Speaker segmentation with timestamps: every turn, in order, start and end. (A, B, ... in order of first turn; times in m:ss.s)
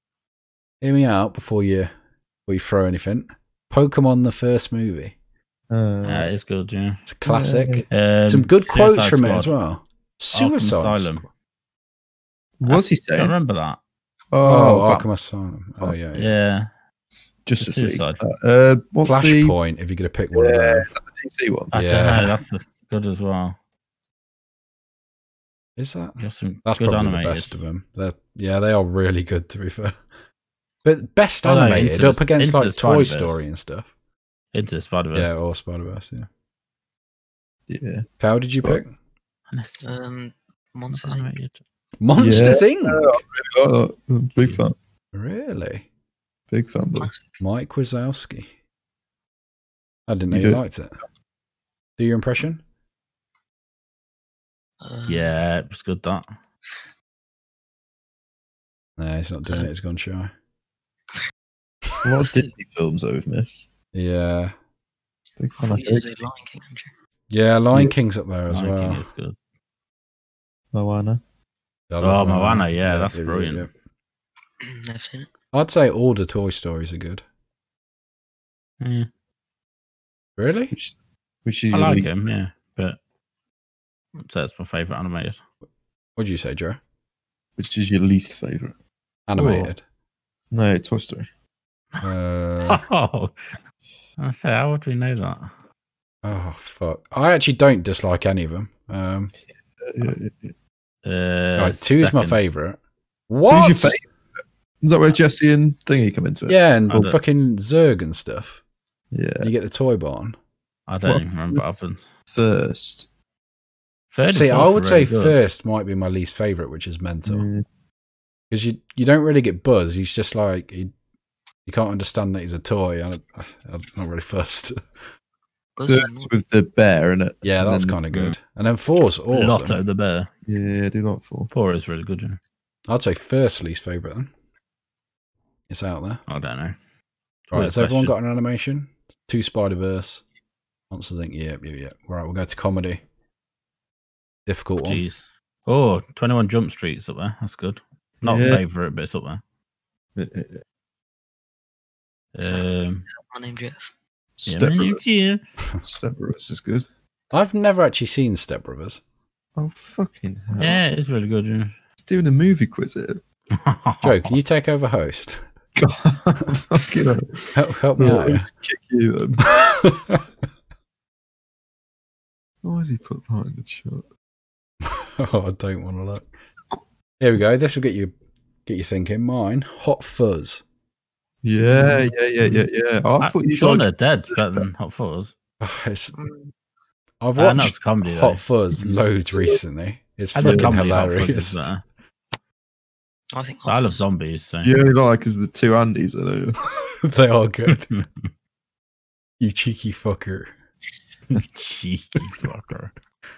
0:00.8-0:01.9 A
0:02.5-0:05.1 A
0:05.7-0:06.3 B
0:06.0-0:07.0 C
0:07.1-0:11.2 A
0:07.2-0:07.9 B
0:07.9-0:09.5 C
0:10.3-0:11.2 C
0:12.6-0:13.3 B
0:12.7-0:13.8 C
0:14.3-0:15.1 B
0:14.4-0:16.3 A
0:16.2-0:16.7 C
0:17.5-0:19.6 B
0:17.6-0:18.2 C
0:19.0-0:20.9 A
0:20.3-0:21.7 B
0:21.7-0:23.6 C
0:21.7-0:22.4 A
0:25.8-0:30.0 A
0:26.2-0:27.5 C
0:30.8-0:33.9 A
0:31.4-0:33.4 C
0:34.5-0:35.4 C
0:35.1-0:36.3 A
0:37.7-0:38.8 B
0:38.2-0:38.9 A
0:39.5-0:39.9 C
0:39.8-0:41.3 D
0:40.9-0:41.6 C
0:42.0-0:43.1 A
0:42.2-0:44.8 B
0:45.1-0:45.8 A
0:46.5-0:47.1 B
0:47.0-0:47.3 D
0:47.4-0:48.5 A
0:50.1-0:51.0 A
0:50.3-0:50.6 B
0:52.0-0:52.6 A
0:54.8-0:55.4 D
0:55.1-0:56.3 C
0:59.0-1:00.3 A
1:02.0-1:03.7 B
1:02.2-1:02.5 D
1:03.9-1:04.5 A
1:05.4-1:06.1 B
1:05.6-1:06.9 D
1:07.3-1:09.0 A
1:08.5-1:09.4 C
1:10.7-1:11.2 B
1:11.9-1:13.7 A
1:12.0-1:13.7 C
1:14.6-1:15.3 D
1:15.5-1:17.2 A
1:18.8-1:19.1 C
1:20.4-1:20.7 A
1:20.7-1:22.1 B
1:21.7-1:23.0 C
1:24.2-1:25.4 C
1:26.2-1:26.8 A
1:27.6-1:28.7 B
1:29.3-1:29.8 A
1:29.4-1:29.7 C
1:30.5-1:31.3 B
1:32.0-1:32.8 A
1:32.6-1:33.6 C
1:34.2-1:35.5 C
1:36.2-1:39.3 A
1:39.8-1:40.5 B
1:41.0-1:42.4 C
1:41.6-1:42.8 A
1:43.3-1:44.0 A
1:43.4-1:44.0 B
1:44.8-1:47.1 B
1:46.5-1:48.6 A
1:46.9-1:47.2 C
1:49.1-1:49.5 B
1:49.4-1:50.4 A
1:50.9-1:52.0 C
1:51.1-1:51.6 B
1:52.3-1:53.1 B
1:54.1-1:55.4 C
1:54.3-1:57.4 A
1:57.3-1:57.6 B
1:58.5-2:00.9 A
2:01.7-2:04.8 A
2:05.8-2:06.3 D
2:05.9-2:08.0 B
2:07.4-2:09.8 A
2:08.1-2:08.4 C
2:09.3-2:10.3 C
2:10.5-2:11.5 B
2:11.5-2:12.4 C
2:12.9-2:14.3 A
2:15.7-2:16.2 A
2:16.3-2:16.8 C
2:17.5-2:18.1 C
2:17.5-2:20.2 A
2:20.9-2:23.0 A
2:24.5-2:25.0 A
2:24.8-2:29.4 C
2:28.2-2:28.6 B
2:30.2-2:30.6 B
2:32.4-2:33.0 C
2:32.4-2:33.9 D
2:34.4-2:35.0 B
2:34.5-2:35.4 C
2:35.8-2:36.9 B
2:37.3-2:39.0 A
2:39.6-2:40.8 B
2:40.6-2:41.8 C
2:42.0-2:43.2 B
2:43.5-2:44.3 C
2:44.0-2:45.4 A
2:45.8-2:49.4 B
2:47.5-2:48.5 A
2:49.4-2:50.2 A
2:52.6-2:54.0 B
2:54.8-2:56.3 A
2:57.2-2:58.1 A
2:58.7-3:00.6 A
3:01.4-3:04.6 B
3:03.2-3:05.3 C
3:05.6-3:06.2 A
3:06.1-3:06.5 D
3:07.2-3:11.7 A
3:07.4-3:09.0 C
3:10.4-3:11.8 C
3:10.4-3:10.7 B
3:13.3-3:14.1 D
3:13.7-3:14.7 C
3:14.6-3:16.6 B
3:17.0-3:17.9 A
3:17.7-3:18.3 C
3:19.4-3:20.5 A
3:21.3-3:22.9 C